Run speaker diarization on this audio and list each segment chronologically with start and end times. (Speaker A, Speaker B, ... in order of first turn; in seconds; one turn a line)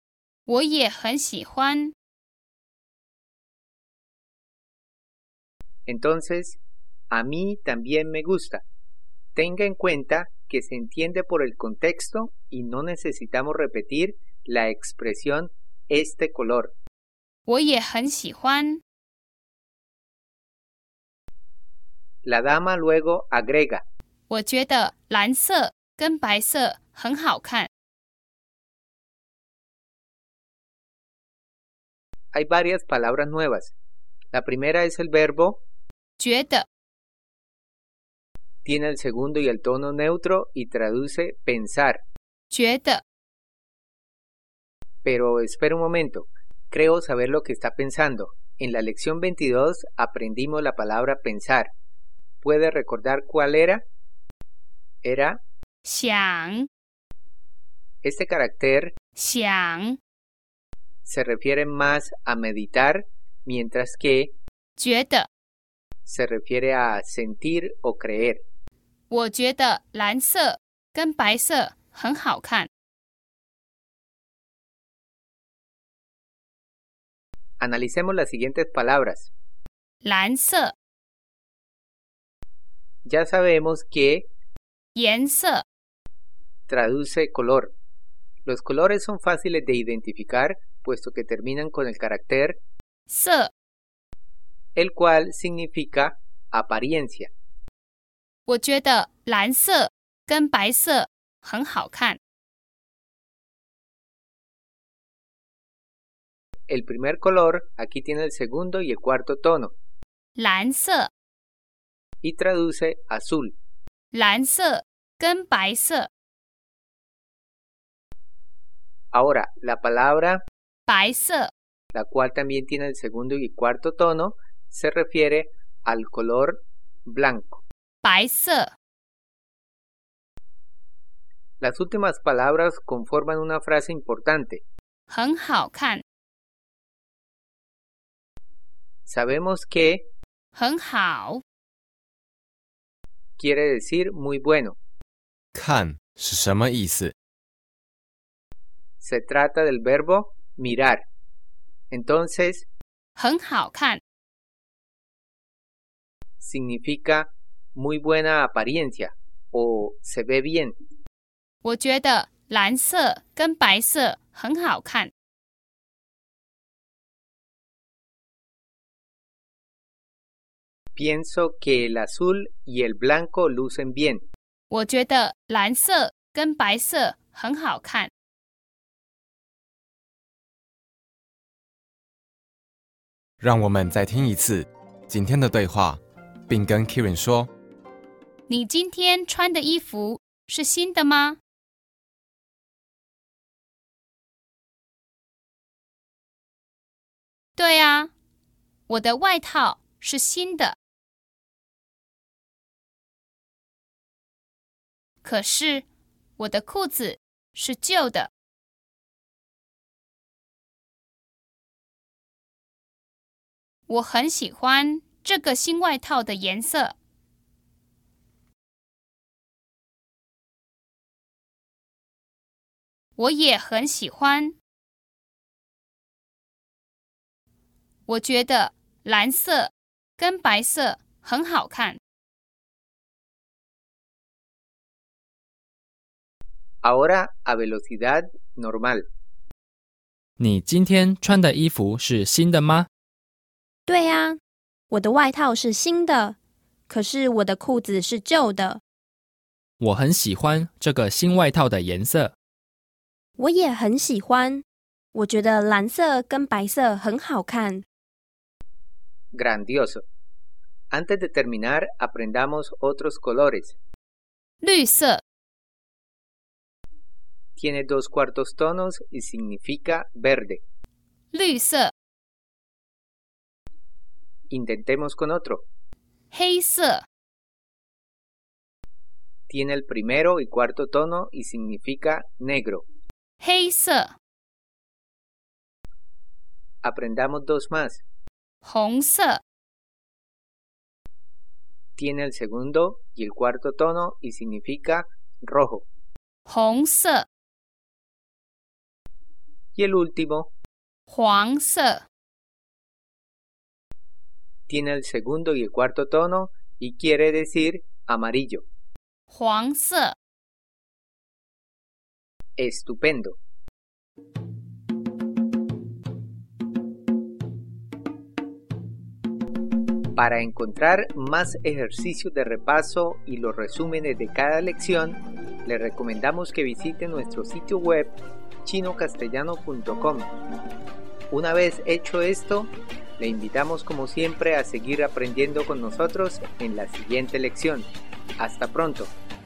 Speaker A: 0.5-1.9
Speaker B: 5.9-6.6
Speaker B: 7.1-8.6
Speaker B: 9.3-16.7
Speaker A: 17.5-18.8
Speaker B: 22.2-23.8
Speaker A: 24.3-27.7
Speaker B: 32.3-33.7
Speaker B: 34.3-35.6
Speaker A: 36.2-36.6
Speaker B: 38.6-42.0
Speaker A: 42.5-43.0
Speaker B: 45.0-51.7
Speaker B: 52.4-53.8
Speaker B: 55.0-55.4
Speaker A: 55.8-56.7
Speaker B: 58.0-58.9
Speaker A: 59.1-60.0
Speaker B: 61.0-64.3
Speaker A: 64.8-65.3
Speaker B: 66.0-68.4
Speaker A: 69.1-72.7
Speaker B: 77.6-79.3
Speaker A: 80.0-80.7
Speaker B: 83.0-84.3
Speaker A: 84.9-85.6
Speaker B: 86.7-87.7
Speaker B: 88.5-92.6
Speaker A: 93.1-93.5
Speaker B: 94.8-97.3
Speaker A: 98.5-102.2
Speaker B: 106.7-109.7
Speaker A: 110.4-111.1
Speaker B: 112.2-113.5
Speaker A: 114.1-116.1
Speaker B: 119.1-120.4
Speaker A: 120.9-121.5
Speaker B: 121.9-127.6
Speaker A: 128.0-128.7
Speaker B: 131.6-134.6
Speaker A: 135.1-136.0
Speaker B: 139.1-140.1
Speaker A: 140.5-141.4
Speaker B: 143.4-144.8
Speaker C: 145.5-147.1
Speaker B: 149.0-151.0
Speaker B: 151.9-152.7
Speaker A: 153.2-154.0
Speaker B: 156.4-160.8
Speaker A: 161.6-165.1
Speaker B: 170.9-174.2
Speaker A: 174.7-178.1
Speaker C: 183.4-187.5
Speaker A: 188.5-191.4
Speaker A: 197.6-198.1
Speaker A: 198.9-200.8
Speaker A: 205.2-205.8
Speaker A: 206.4-208.3
Speaker A: 213.9-216.9
Speaker A: 223.2-224.6
Speaker A: 228.1-232.0
Speaker B: 236.8-239.0
Speaker D: 240.4-242.9
Speaker E: 243.9-244.4
Speaker E: 244.9-246.3
Speaker E: 246.9-248.8
Speaker D: 249.8-252.3
Speaker E: 253.4-257.8
Speaker B: 259.3-260.0
Speaker B: 260.9-263.8
Speaker A: 264.6-265.2
Speaker B: 267.6-270.6
Speaker A: 271.3-271.9
Speaker B: 274.5-275.6
Speaker A: 276.3-277.0
Speaker B: 279.5-282.8
Speaker A: 283.4-284.1
Speaker B: 286.8-288.0
Speaker A: 288.6-289.4
Speaker B: 292.0-295.9
Speaker A: 296.5-297.2
Speaker B: 299.7-300.5
Speaker A: 301.1-302.0
Speaker B: 304.7-308.6
Speaker A: 309.3-310.1
Speaker B: 312.6-313.4
Speaker B: 320.1-330.3
Speaker B: 331.3-339.1